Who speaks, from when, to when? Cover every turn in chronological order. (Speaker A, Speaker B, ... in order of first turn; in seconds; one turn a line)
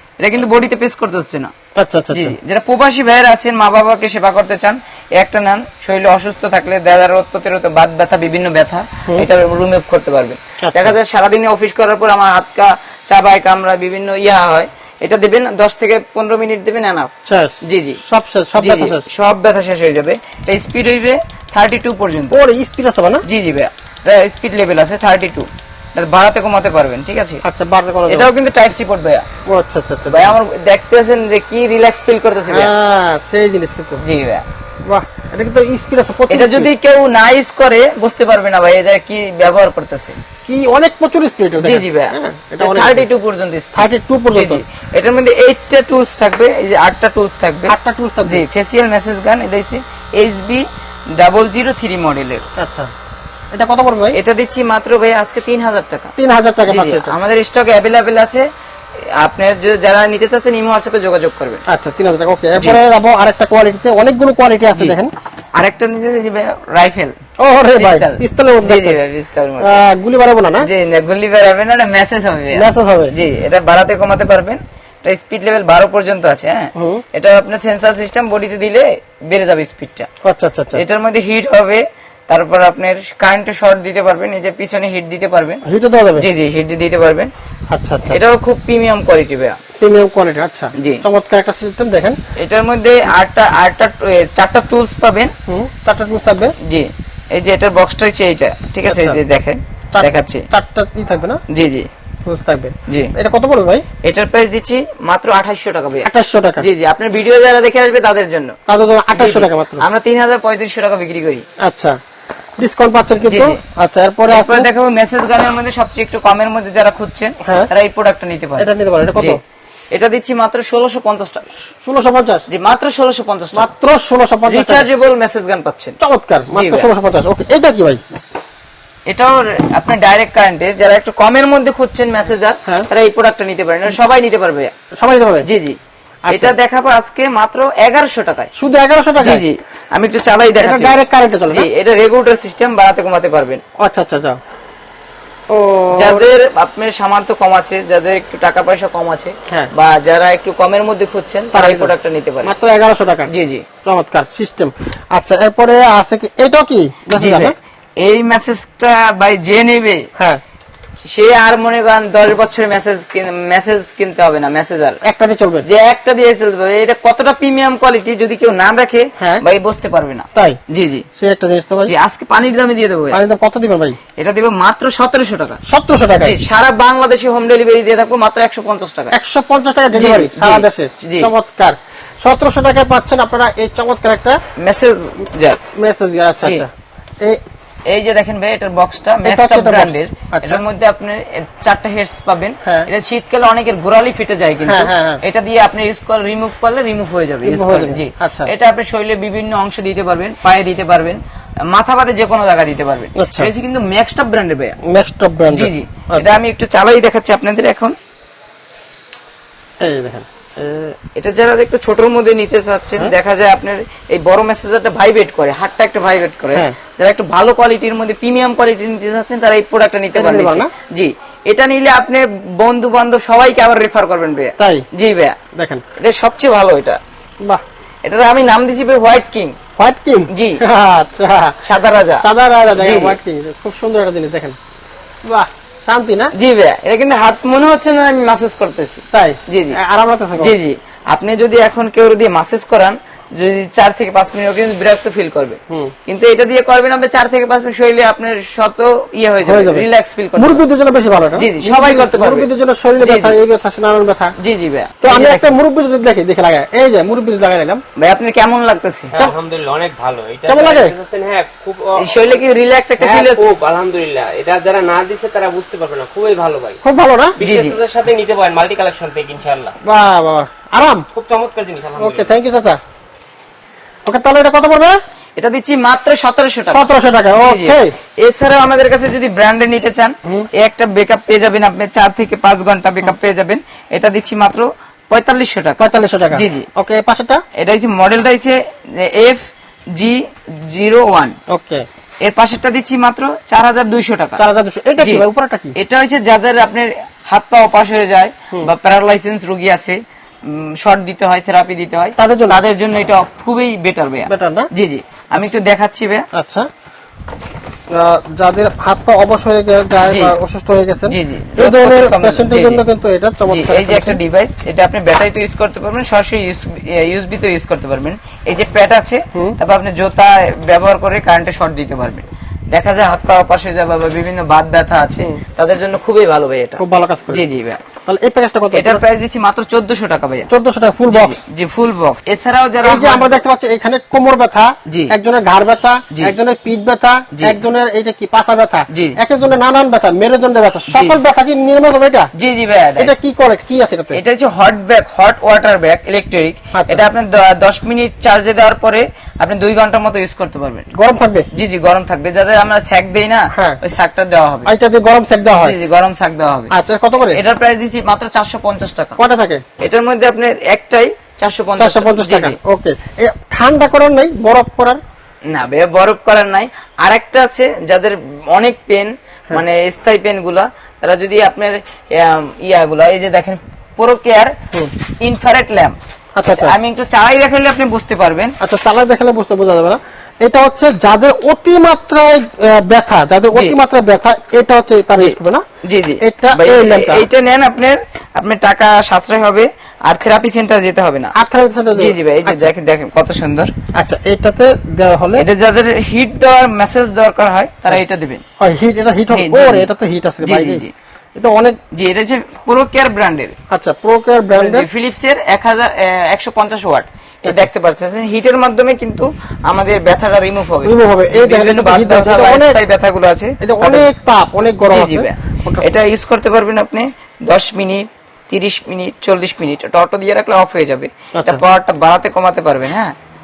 Speaker A: 0.2-1.5
Speaker B: 1.8-2.4
Speaker A: 2.1-17.1
Speaker B: 10.6-11.0
Speaker B: 17.3-19.0
Speaker A: 17.6-18.0
Speaker A: 18.6-22.4
Speaker B: 22.3-23.2
Speaker A: 23.2-27.4
Speaker B: 27.4-28.3
Speaker A: 28.1-29.2
Speaker B: 29.5-30.4
Speaker A: 30.1-32.7
Speaker B: 32.5-34.0
Speaker A: 34.0-34.4
Speaker B: 34.9-36.7
Speaker A: 36.3-40.2
Speaker B: 40.5-43.1
Speaker A: 41.6-47.7
Speaker B: 43.8-44.6
Speaker B: 47.7-48.4
Speaker A: 48.3-50.6
Speaker A: 51.2-52.4
Speaker B: 52.6-52.9
Speaker B: 53.5-54.2
Speaker A: 54.1-56.1
Speaker B: 56.2-57.1
Speaker A: 56.7-58.5
Speaker A: 59.0-61.6
Speaker B: 61.7-65.1
Speaker A: 62.6-62.8
Speaker A: 65.6-67.1
Speaker B: 67.4-69.0
Speaker A: 67.8-69.8
Speaker B: 69.6-70.7
Speaker A: 70.6-80.1
Speaker B: 72.5-73.1
Speaker B: 76.8-77.0
Speaker B: 80.2-80.8
Speaker A: 80.8-85.6
Speaker B: 85.7-86.2
Speaker A: 86.2-87.3
Speaker B: 87.7-88.2
Speaker A: 88.1-89.6
Speaker B: 89.8-92.2
Speaker A: 90.8-91.0
Speaker A: 92.4-95.3
Speaker B: 95.5-96.5
Speaker A: 96.6-100.5
Speaker B: 98.9-99.2
Speaker B: 99.9-101.4
Speaker A: 101.5-101.9
Speaker B: 102.2-103.8
Speaker A: 102.9-103.1
Speaker A: 104.0-108.5
Speaker B: 106.0-106.7
Speaker B: 108.7-109.8
Speaker A: 109.1-111.4
Speaker B: 111.6-112.0
Speaker B: 112.6-114.7
Speaker A: 113.2-113.6
Speaker A: 114.3-119.4
Speaker B: 117.4-117.7
Speaker B: 118.6-119.4
Speaker A: 119.9-121.5
Speaker B: 121.8-122.4
Speaker A: 122.5-123.7
Speaker B: 123.5-124.9
Speaker A: 124.5-126.0
Speaker B: 126.0-128.0
Speaker A: 126.5-126.9
Speaker A: 129.1-134.7
Speaker B: 135.0-135.5
Speaker A: 135.4-135.8
Speaker B: 136.3-136.6
Speaker A: 136.3-138.5
Speaker B: 138.6-139.5
Speaker A: 139.2-141.0
Speaker B: 140.6-141.7
Speaker A: 141.5-143.6
Speaker B: 143.8-144.4
Speaker B: 145.5-146.3
Speaker A: 145.9-152.5
Speaker B: 151.5-151.9
Speaker B: 152.4-153.3
Speaker A: 153.3-153.7
Speaker B: 153.8-157.6
Speaker A: 157.2-160.1
Speaker A: 161.1-165.0
Speaker B: 165.0-165.7
Speaker A: 165.7-171.1
Speaker B: 170.3-170.6
Speaker B: 171.2-171.9
Speaker A: 171.8-173.2
Speaker B: 173.1-174.0
Speaker A: 174.2-175.6
Speaker B: 175.7-176.4
Speaker A: 176.2-179.1
Speaker B: 179.1-184.4
Speaker A: 179.9-181.3
Speaker A: 184.6-185.6
Speaker B: 185.8-187.4
Speaker A: 187.9-204.8
Speaker B: 189.2-190.6
Speaker B: 192.6-192.9
Speaker B: 194.6-195.2
Speaker B: 197.4-198.5
Speaker B: 203.2-203.5
Speaker B: 204.9-206.4
Speaker A: 205.5-207.9
Speaker B: 209.8-211.0
Speaker A: 211.2-225.4
Speaker B: 220.2-220.7
Speaker B: 224.6-224.9
Speaker B: 225.6-225.8
Speaker A: 226.0-227.0
Speaker A: 228.0-229.6
Speaker B: 229.8-231.6
Speaker A: 230.3-230.6
Speaker A: 231.6-233.2
Speaker B: 232.2-234.6
Speaker B: 235.2-236.3
Speaker A: 236.3-239.8
Speaker B: 239.1-240.6
Speaker A: 240.4-250.6
Speaker B: 249.4-254.3
Speaker A: 251.4-252.5
Speaker A: 253.0-253.4
Speaker A: 254.4-255.5
Speaker B: 255.0-257.8
Speaker A: 258.0-259.2
Speaker C: 259.1-262.4
Speaker B: 260.5-260.9
Speaker A: 262.0-263.5
Speaker C: 263.0-266.8
Speaker B: 266.8-267.4
Speaker C: 267.4-269.7
Speaker A: 267.4-267.8
Speaker B: 269.8-271.1
Speaker C: 271.1-272.4
Speaker B: 272.0-272.8
Speaker B: 274.1-274.9
Speaker A: 275.4-286.7
Speaker B: 276.7-277.9
Speaker B: 285.8-287.4
Speaker A: 287.6-291.4
Speaker B: 291.5-291.9
Speaker A: 292.2-294.4
Speaker B: 294.4-295.8
Speaker A: 295.0-295.2
Speaker A: 295.8-306.2
Speaker B: 302.2-302.6
Speaker B: 304.3-304.7
Speaker B: 306.3-306.7
Speaker B: 307.9-314.2
Speaker A: 310.1-310.4
Speaker A: 311.1-312.8
Speaker A: 313.5-326.8
Speaker B: 326.8-327.4
Speaker A: 327.3-327.8
Speaker B: 328.1-329.0
Speaker A: 328.7-330.5
Speaker B: 330.5-331.4
Speaker A: 331.1-333.4
Speaker B: 332.8-342.3
Speaker A: 334.9-335.1
Speaker A: 337.3-337.6
Speaker A: 338.9-339.2
Speaker A: 340.9-341.2
Speaker A: 342.4-343.1
Speaker B: 343.0-344.2
Speaker A: 344.1-350.9
Speaker B: 346.7-347.0
Speaker B: 350.9-351.5
Speaker A: 351.5-354.7
Speaker B: 353.5-353.8
Speaker B: 354.7-355.8
Speaker A: 355.6-356.7
Speaker B: 356.7-357.4
Speaker A: 357.3-359.2
Speaker B: 359.2-359.6
Speaker A: 359.8-362.6
Speaker B: 361.8-365.0
Speaker A: 365.5-374.6
Speaker A: 375.2-376.0
Speaker B: 376.4-376.8
Speaker A: 376.5-378.5
Speaker B: 378.6-385.6
Speaker A: 385.2-391.3
Speaker B: 386.2-387.3
Speaker B: 391.4-392.7
Speaker A: 391.9-393.7
Speaker B: 393.9-395.5
Speaker A: 395.4-398.4
Speaker B: 398.6-400.8
Speaker A: 399.3-399.9
Speaker A: 400.4-400.9
Speaker B: 401.4-401.8
Speaker A: 401.9-403.5
Speaker B: 403.7-404.9
Speaker A: 404.5-414.1
Speaker B: 410.8-412.8
Speaker B: 413.6-415.9
Speaker A: 414.9-423.1
Speaker B: 421.4-421.6